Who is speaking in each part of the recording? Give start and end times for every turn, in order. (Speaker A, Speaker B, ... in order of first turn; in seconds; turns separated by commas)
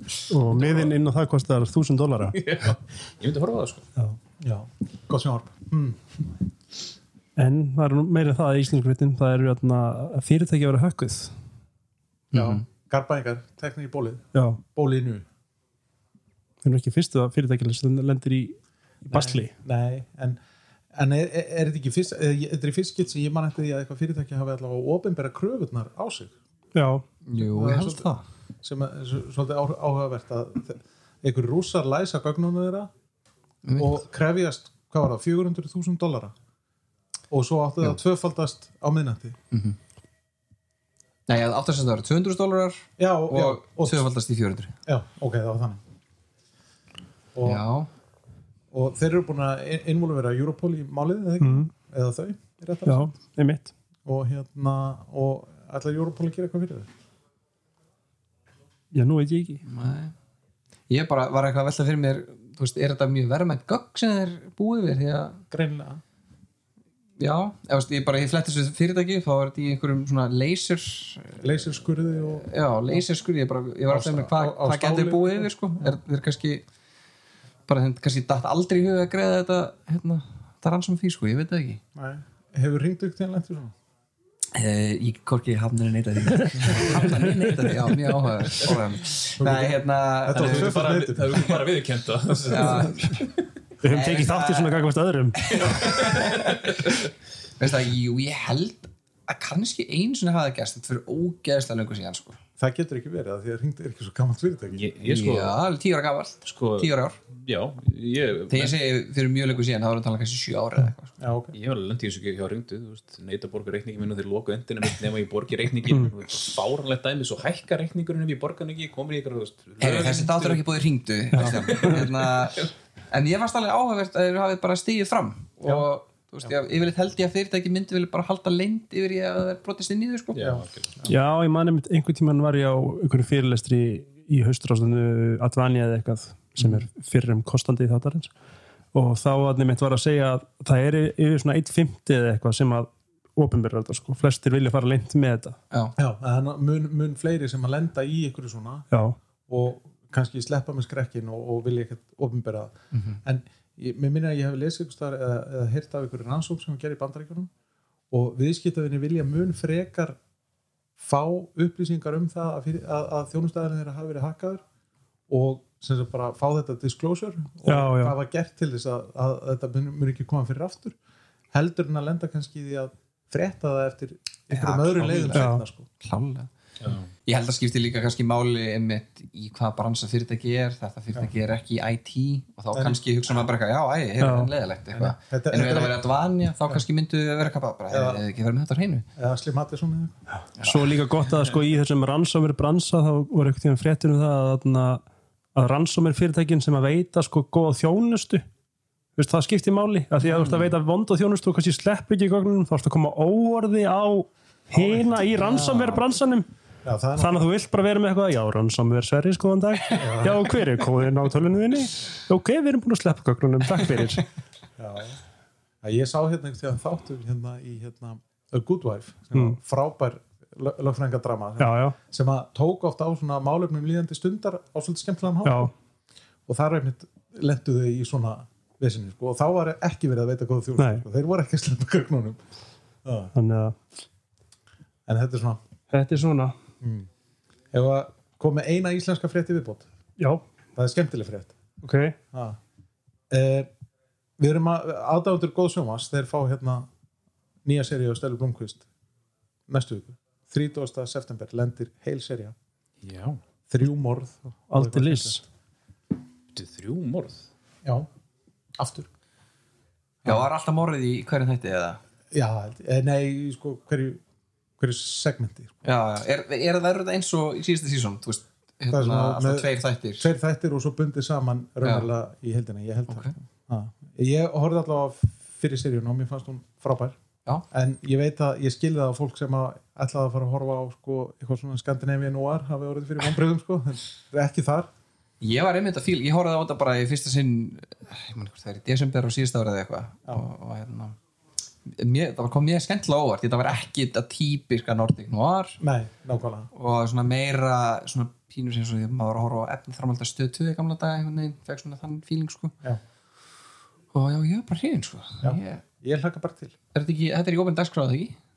Speaker A: 0.3-2.4, Speaker B: 0.5-0.9, Speaker B: 2.3-3.8, Speaker C: 4.4-6.0, Speaker A: 7.4-11.3, Speaker D: 12.3-12.6, Speaker C: 12.3-15.2, Speaker A: 14.3-14.6, Speaker A: 16.6-18.6, Speaker A: 19.1-19.5, Speaker C: 19.1-20.4, Speaker C: 20.9-26.3, Speaker A: 26.7-27.0, Speaker D: 27.2-28.2, Speaker C: 27.4-28.1, Speaker C: 28.6-32.9, Speaker D: 33.6-34.0, Speaker C: 33.8-36.3, Speaker C: 37.3-39.4, Speaker D: 39.5-39.8, Speaker D: 41.3-44.7, Speaker C: 43.0-44.1, Speaker C: 44.9-45.8, Speaker C: 47.3-47.6, Speaker D: 47.4-47.9, Speaker C: 48.7-53.1, Speaker A: 51.4-51.7, Speaker A: 52.9-53.7, Speaker C: 54.0-56.9, Speaker A: 58.9-59.6, Speaker D: 59.6-60.1, Speaker D: 60.9-65.4, Speaker C: 65.5-66.0, Speaker D: 67.2-71.5, Speaker C: 71.4-73.0, Speaker D: 72.2-76.6, Speaker C: 73.9-75.9, Speaker D: 77.7-81.8, Speaker C: 81.9-83.7, Speaker D: 84.5-90.8, Speaker C: 89.4-91.6, Speaker B: 90.3-93.4, Speaker C: 92.3-92.9, Speaker D: 92.4-93.2, Speaker A: 93.8-95.6, Speaker D: 93.8-96.8, Speaker B: 95.6-97.0, Speaker D: 97.6-102.4, Speaker C: 102.6-104.8, Speaker B: 104.7-105.6, Speaker D: 105.0-107.2, Speaker B: 106.4-108.8, Speaker D: 108.5-111.1, Speaker C: 111.2-111.5, Speaker B: 111.5-120.6, Speaker A: 115.9-116.1, Speaker D: 119.8-130.4, Speaker A: 121.3-122.0, Speaker B: 121.4-122.7, Speaker B: 130.3-131.0, Speaker C: 130.4-131.1, Speaker A: 131.1-138.3, Speaker A: 138.9-145.6, Speaker C: 146.0-148.9, Speaker A: 148.9-149.2, Speaker C: 149.5-157.5, Speaker D: 152.9-153.2, Speaker C: 158.1-160.2, Speaker C: 161.0-164.6, Speaker C: 165.3-170.9, Speaker A: 167.6-168.1, Speaker C: 171.5-175.9, Speaker D: 174.5-175.5, Speaker A: 175.3-175.6, Speaker D: 176.0-176.5, Speaker B: 176.8-177.1, Speaker D: 177.2-189.1, Speaker C: 182.7-183.0, Speaker A: 184.2-184.5, Speaker C: 184.9-186.1, Speaker C: 187.9-188.2, Speaker C: 189.2-190.2, Speaker D: 190.6-190.8, Speaker A: 190.6-195.0, Speaker A: 195.5-198.4, Speaker A: 199.2-206.5, Speaker D: 200.3-200.7, Speaker C: 204.7-205.2, Speaker D: 205.4-206.0, Speaker C: 206.8-207.5, Speaker A: 207.2-214.3, Speaker C: 209.9-210.5, Speaker C: 214.8-215.2, Speaker C: 215.8-225.7, Speaker A: 221.6-221.9, Speaker A: 225.4-225.7, Speaker C: 226.5-232.4, Speaker A: 230.8-231.0, Speaker C: 233.0-233.3, Speaker A: 233.3-233.8, Speaker C: 235.1-235.6, Speaker A: 235.9-236.5, Speaker C: 236.8-237.1, Speaker C: 237.7-239.9, Speaker C: 240.7-241.6, Speaker A: 241.8-242.2, Speaker C: 242.3-242.6, Speaker C: 243.3-243.7, Speaker C: 244.4-246.9, Speaker C: 247.6-248.8, Speaker C: 249.7-252.5, Speaker B: 253.0-253.4, Speaker C: 253.7-255.4, Speaker A: 254.7-255.4, Speaker B: 256.5-257.4, Speaker C: 258.8-259.1, Speaker D: 260.2-262.0, Speaker C: 262.3-264.2, Speaker C: 264.8-265.7, Speaker D: 265.8-270.3, Speaker C: 268.9-277.1, Speaker D: 271.8-272.1, Speaker D: 273.1-273.3, Speaker C: 277.7-284.9, Speaker D: 285.4-291.2, Speaker D: 291.9-295.8, Speaker C: 295.8-296.7, Speaker D: 296.7-302.8, Speaker D: 304.1-305.8, Speaker C: 305.4-306.7, Speaker D: 306.9-308.4